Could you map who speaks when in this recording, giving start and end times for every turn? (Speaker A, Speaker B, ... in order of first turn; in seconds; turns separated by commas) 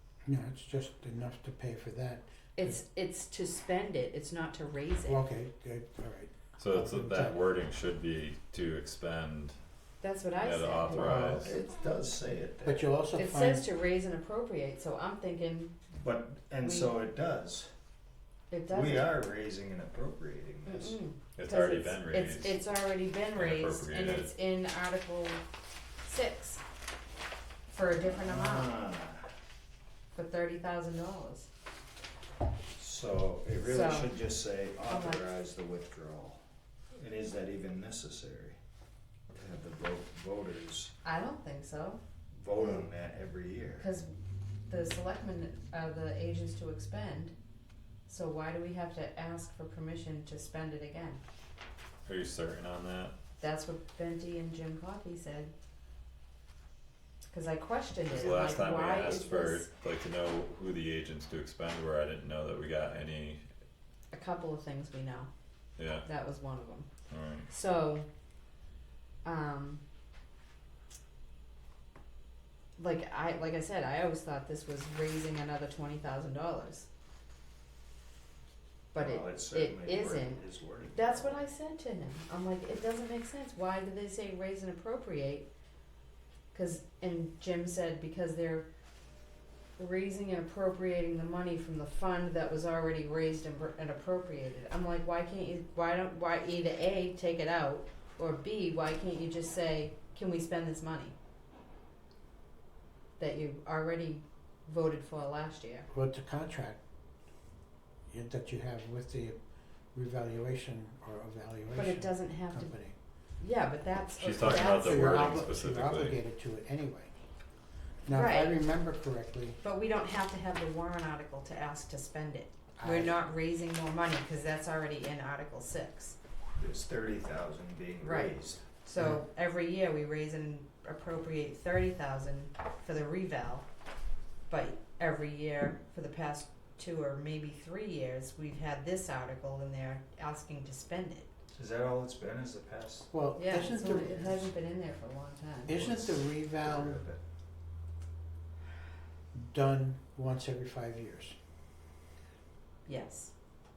Speaker A: 0.3-2.8, Speaker B: 2.6-5.2, Speaker A: 5.0-7.4, Speaker C: 6.6-9.6, Speaker B: 10.0-11.1, Speaker C: 10.4-11.6, Speaker A: 10.9-11.5, Speaker D: 10.9-12.9, Speaker A: 12.7-13.7, Speaker B: 13.2-15.8, Speaker D: 16.0-17.7, Speaker B: 16.6-16.9, Speaker B: 18.5-19.1, Speaker D: 18.7-21.0, Speaker B: 20.7-25.4, Speaker C: 21.4-22.6, Speaker C: 23.4-24.3, Speaker B: 26.0-26.6, Speaker B: 27.7-28.8, Speaker D: 28.1-29.3, Speaker B: 30.1-31.5, Speaker D: 32.8-36.4, Speaker B: 33.6-34.1, Speaker B: 34.9-35.3, Speaker D: 36.9-38.6, Speaker D: 39.3-40.9, Speaker B: 41.0-42.0, Speaker D: 42.3-43.9, Speaker B: 43.8-44.1, Speaker B: 44.7-47.3, Speaker B: 48.1-51.2, Speaker C: 52.1-53.1, Speaker B: 53.4-55.5, Speaker B: 57.3-59.7, Speaker C: 58.1-63.4, Speaker B: 64.1-65.3, Speaker C: 65.8-66.1, Speaker B: 66.1-66.9, Speaker C: 67.1-67.5, Speaker B: 67.5-68.1, Speaker B: 69.2-69.8, Speaker B: 72.8-76.9, Speaker B: 78.9-85.5, Speaker D: 79.0-81.5, Speaker B: 86.5-88.7, Speaker B: 89.8-101.2, Speaker B: 103.2-105.9, Speaker A: 105.9-106.8, Speaker A: 108.1-109.4, Speaker A: 109.9-113.0, Speaker B: 111.8-112.7, Speaker B: 113.4-115.5, Speaker C: 114.2-116.2, Speaker A: 114.4-117.2, Speaker A: 118.0-119.6, Speaker B: 118.1-118.6, Speaker B: 119.6-126.2, Speaker A: 122.8-123.2, Speaker D: 126.6-128.6, Speaker B: 128.0-133.7, Speaker B: 134.5-141.3, Speaker D: 141.6-143.1, Speaker A: 143.1-144.5, Speaker B: 143.4-145.9, Speaker A: 145.7-147.0, Speaker D: 145.8-147.2, Speaker A: 149.3-151.4, Speaker B: 152.9-153.3